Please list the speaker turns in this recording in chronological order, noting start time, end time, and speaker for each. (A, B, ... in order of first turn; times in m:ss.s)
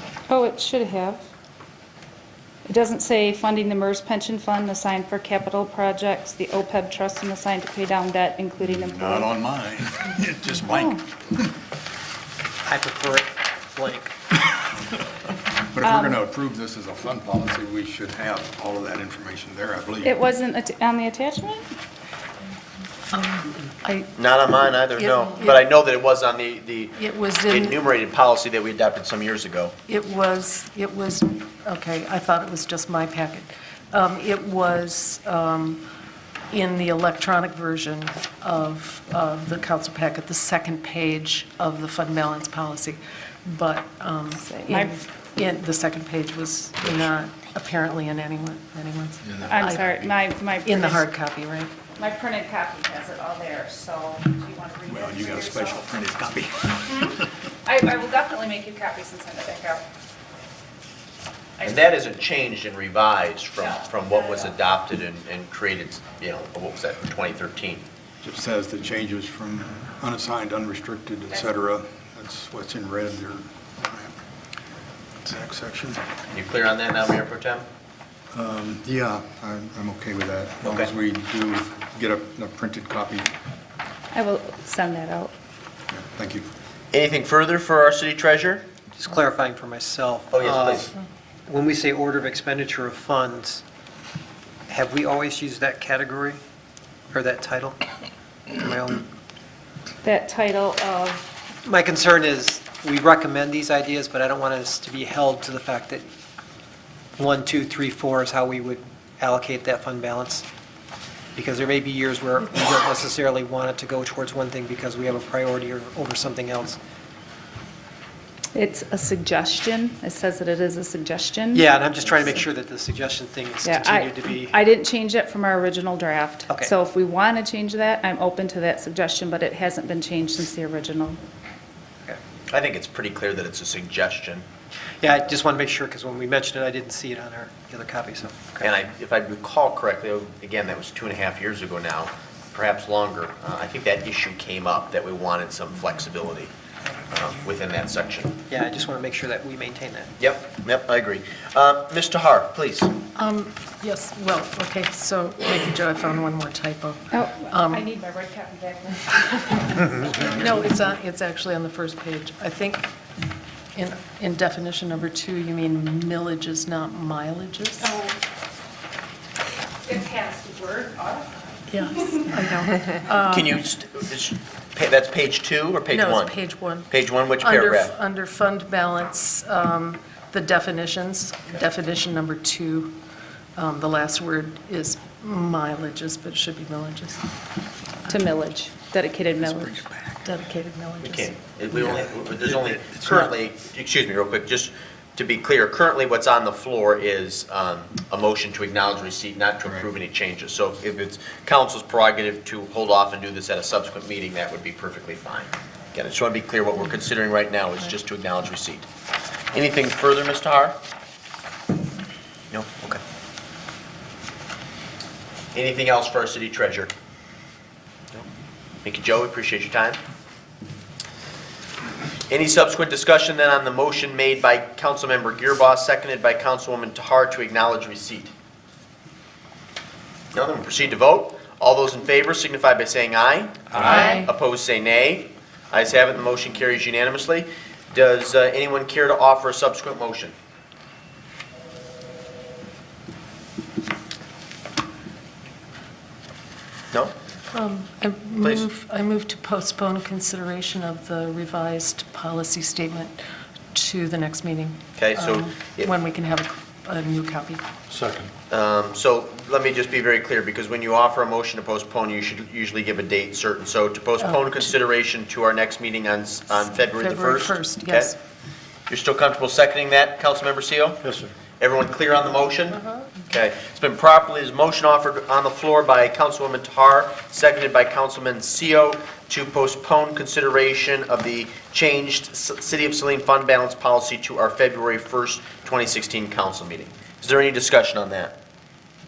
0:00.3-0:01.2 A
0:02.6-0:09.3 A
0:08.6-0:11.5 B
0:10.6-0:11.0 A
0:12.6-0:14.1 C
0:15.6-0:20.1 B
0:15.8-0:16.2 A
0:20.0-0:21.6 A
0:23.1-0:24.1 D
0:24.2-0:29.7 E
0:25.0-0:25.6 D
0:27.0-0:27.8 D
0:29.9-0:35.8 D
0:36.5-0:49.9 D
0:44.4-0:44.9 A
0:49.2-0:50.0 B
0:49.4-0:51.1 A
0:50.6-0:51.8 D
0:51.9-0:55.9 A
0:54.9-0:57.3 B
0:56.9-0:57.1 A
0:57.6-0:59.8 A
1:01.6-1:07.8 E
1:03.6-1:04.5 A
1:08.2-1:14.2 B
1:11.3-1:11.6 A
1:15.2-1:16.0 B
1:16.3-1:17.6 E
1:18.3-1:23.3 B
1:24.1-1:25.3 A
1:25.9-1:26.5 B
1:26.9-1:28.6 E
1:29.0-1:30.9 C
1:30.3-1:30.9 E
1:31.5-1:33.6 C
1:34.7-1:36.4 C
1:37.1-1:37.8 C
1:38.5-1:39.0 C
1:40.0-1:41.2 A
1:41.6-1:46.1 C
1:47.2-1:50.4 C
1:51.3-1:56.8 C
1:58.5-2:02.4 A
2:01.5-2:04.6 C
2:03.6-2:11.2 A
2:12.5-2:14.4 E
2:15.0-2:18.7 C
2:18.6-2:26.5 E
2:27.1-2:28.4 E
2:28.5-2:30.1 C
2:30.2-2:32.9 E
2:33.1-2:37.9 D
2:37.1-2:40.6 A
2:40.1-2:42.9 D
2:43.7-2:48.0 D
2:47.8-2:48.2 A
2:49.8-2:52.4 A
2:51.7-2:53.5 D
2:53.3-2:56.3 E
2:55.9-3:03.0 D
2:56.9-2:57.9 E
3:03.6-3:07.2 D
3:08.1-3:09.8 A
3:09.4-3:10.2 B
3:10.2-3:11.3 D
3:11.0-3:28.8 E
3:11.8-3:13.2 B
3:29.5-3:30.8 E
3:32.5-3:33.0 E
3:35.5-3:36.9 E
3:38.8-3:40.0 E
3:42.3-3:48.3 E
3:50.3-4:00.3 E
3:53.8-3:54.3 D
4:07.5-4:13.2 D
4:08.4-4:08.6 E
4:13.7-4:17.6 D
4:15.0-4:15.9 E
4:17.9-4:18.3 B
4:18.5-4:28.1 E
4:24.2-4:24.6 D
4:26.9-4:28.2 D
4:28.9-4:31.0 E
4:31.6-4:48.3 E